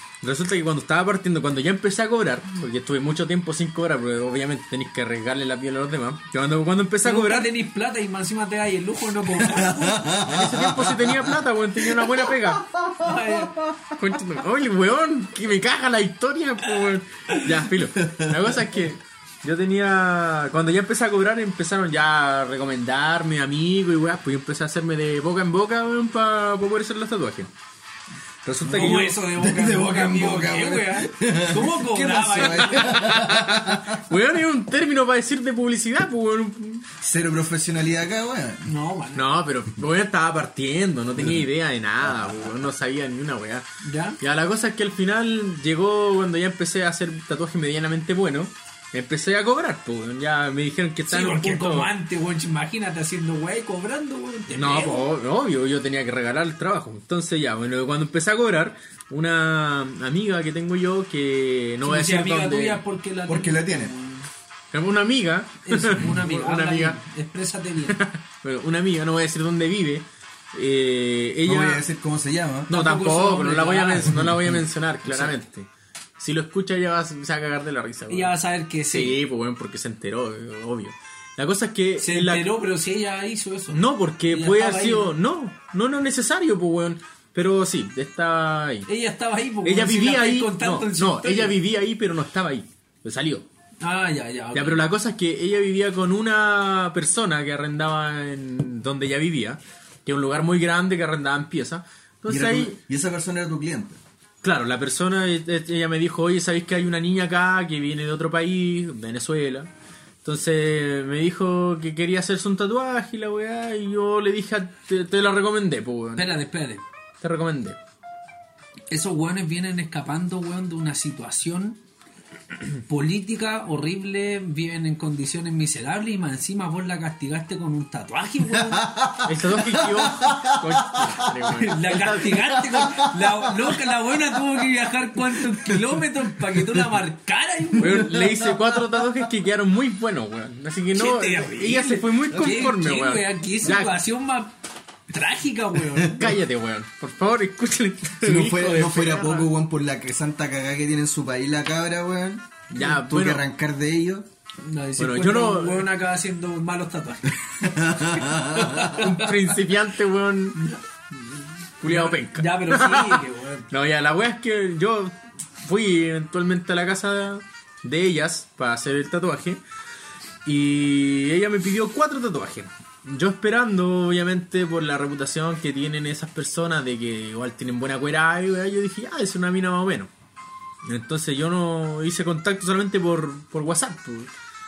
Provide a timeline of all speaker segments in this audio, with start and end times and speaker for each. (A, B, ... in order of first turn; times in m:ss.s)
0:00.2-0:07.5 A
0:07.0-0:10.2 B
0:09.4-0:13.9 C
0:10.2-0:12.7 A
0:13.0-0:13.6 B
0:13.9-0:27.5 A
0:18.0-0:18.5 C
0:28.4-0:29.2 A
0:28.6-0:34.0 C
0:28.7-0:32.8 B
0:32.4-0:36.9 A
0:37.0-0:38.6 C
0:38.6-0:39.2 B
0:39.1-0:43.6 A
0:41.2-0:41.4 C
0:42.0-0:42.4 C
0:43.8-0:44.2 B
0:44.2-0:51.9 A
0:51.1-0:55.0 B
0:54.5-1:02.8 A
1:01.8-1:04.3 B
1:03.3-1:03.9 C
1:04.7-1:07.0 A
1:05.6-1:08.0 B
1:07.9-1:11.8 A
1:11.4-1:12.7 C
1:12.7-1:14.3 B
1:12.7-1:18.4 A
1:14.0-1:14.6 C
1:18.1-1:19.2 B
1:18.9-1:22.5 A
1:22.0-1:25.1 B
1:23.7-1:28.9 A
1:28.9-1:31.6 B
1:29.6-1:33.4 A
1:33.8-1:34.8 B
1:34.5-1:42.8 A
1:42.3-1:44.0 C
1:44.4-1:49.7 A
1:50.2-1:56.3 A
1:56.2-1:56.8 B
1:57.2-1:57.8 A
1:58.9-2:01.8 B
2:02.9-2:08.9 B
2:08.7-2:11.5 C
2:09.2-2:12.4 A
2:11.6-2:18.3 B
2:12.4-2:13.7 C
2:15.3-2:15.9 C
2:16.5-2:16.8 C
2:17.8-2:19.2 C
2:17.8-2:24.0 A
2:20.9-2:24.6 B
2:25.1-2:26.3 B
2:26.1-2:29.5 A
2:28.2-2:34.3 C
2:32.7-2:33.4 A
2:34.6-2:39.3 B
2:35.0-2:35.9 A
2:37.6-2:39.0 C
2:38.9-2:40.6 A
2:41.8-2:49.6 A
2:41.8-2:43.7 B
2:50.4-3:00.1 A
3:00.8-3:04.3 A